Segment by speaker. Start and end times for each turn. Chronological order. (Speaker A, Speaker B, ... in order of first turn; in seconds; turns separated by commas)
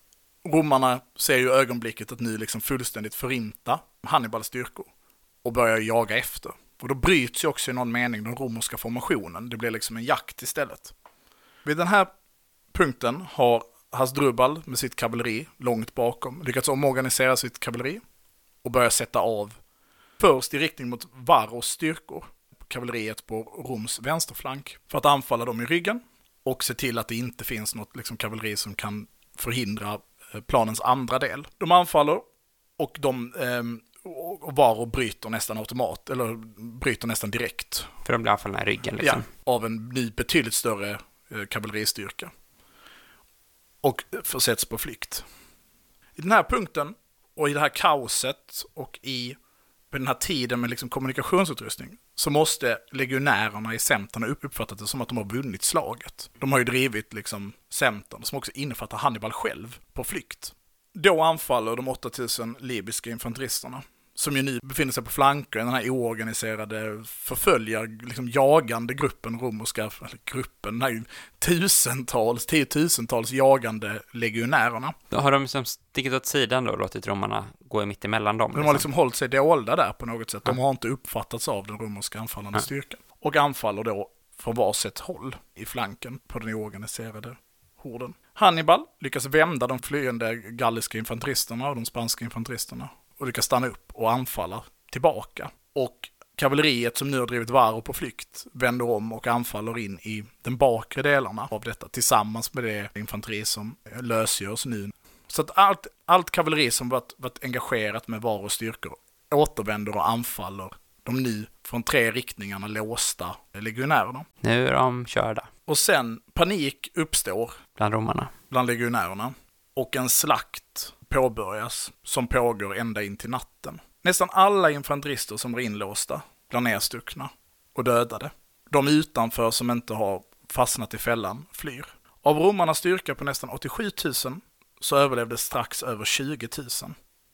Speaker A: 0.4-4.9, Speaker A: 5.4-10.9, Speaker A: 11.6-12.1, Speaker A: 12.7-18.0, Speaker A: 18.6-19.6, Speaker A: 20.2-32.2, Speaker A: 32.8-37.9, Speaker B: 38.0-39.3, Speaker A: 39.0-42.3, Speaker A: 43.8-45.2, Speaker A: 46.1-49.4, Speaker A: 49.9-74.9, Speaker B: 75.1-78.9, Speaker A: 78.5-114.2, Speaker B: 114.4-115.5, Speaker A: 115.7-117.6, Speaker B: 117.8-118.3, Speaker A: 118.5-136.9